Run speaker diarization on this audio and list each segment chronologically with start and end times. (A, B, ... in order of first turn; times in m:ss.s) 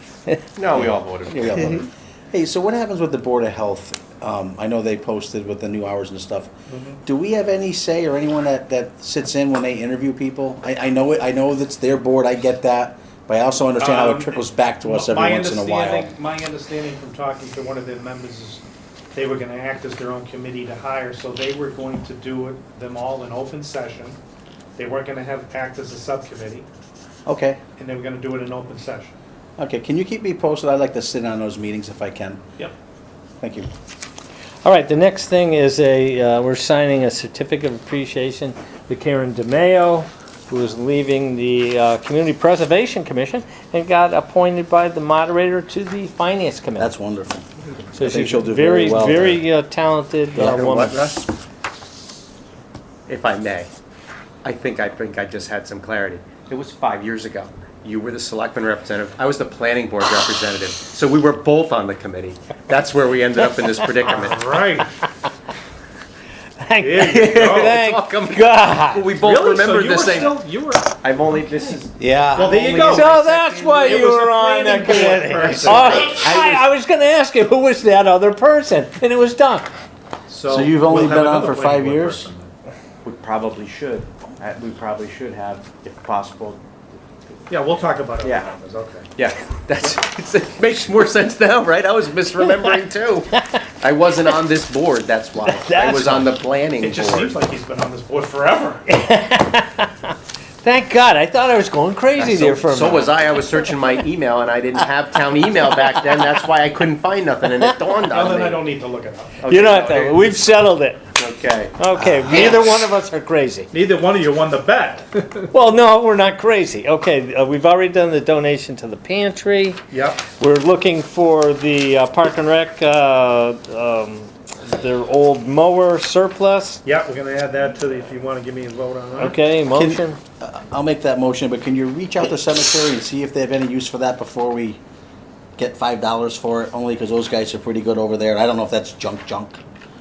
0:00.6-0:01.8 A
0:00.7-0:06.5 B
0:06.7-0:07.0 C
0:07.0-0:16.1 B
0:13.8-0:18.6 C
0:19.1-0:24.2 C
0:24.8-0:26.7 C
0:27.2-0:27.6 B
0:27.8-0:29.1 C
0:29.6-0:32.4 B
0:33.4-0:33.7 B
0:34.6-0:47.0 D
0:46.8-0:49.4 B
0:47.9-0:51.0 D
0:50.4-0:51.3 A
0:53.1-0:53.7 A
0:54.4-1:04.5 A
1:04.1-1:04.9 C
1:06.6-1:09.1 D
1:06.8-1:07.8 C
1:07.2-1:10.4 A
1:09.2-1:11.8 C
1:11.0-1:14.3 A
1:12.0-1:12.5 B
1:12.4-1:13.1 C
1:12.8-1:19.7 D
1:13.8-1:16.3 C
1:14.9-1:16.6 A
1:20.3-1:22.5 C
1:20.5-1:22.2 B
1:23.0-1:26.6 A
1:27.5-1:29.1 C
1:28.2-1:28.5 A
1:29.2-1:33.3 A
1:33.8-1:37.4 A
1:35.4-1:36.3 D
1:36.8-1:38.9 C
1:38.9-1:40.0 D
1:40.6-1:43.5 D
1:42.2-1:48.7 A
1:48.1-1:49.4 C
1:49.4-1:50.3 A
1:49.5-1:51.0 D
1:51.2-1:51.8 A
1:51.8-1:53.7 D
1:52.0-1:52.6 B
1:53.7-1:55.5 C
1:55.5-1:59.8 D
1:59.9-2:00.3 C
2:00.3-2:06.8 D
2:06.8-2:09.4 C
2:09.2-2:10.2 D
2:09.7-2:14.8 B
2:15.6-2:19.6 B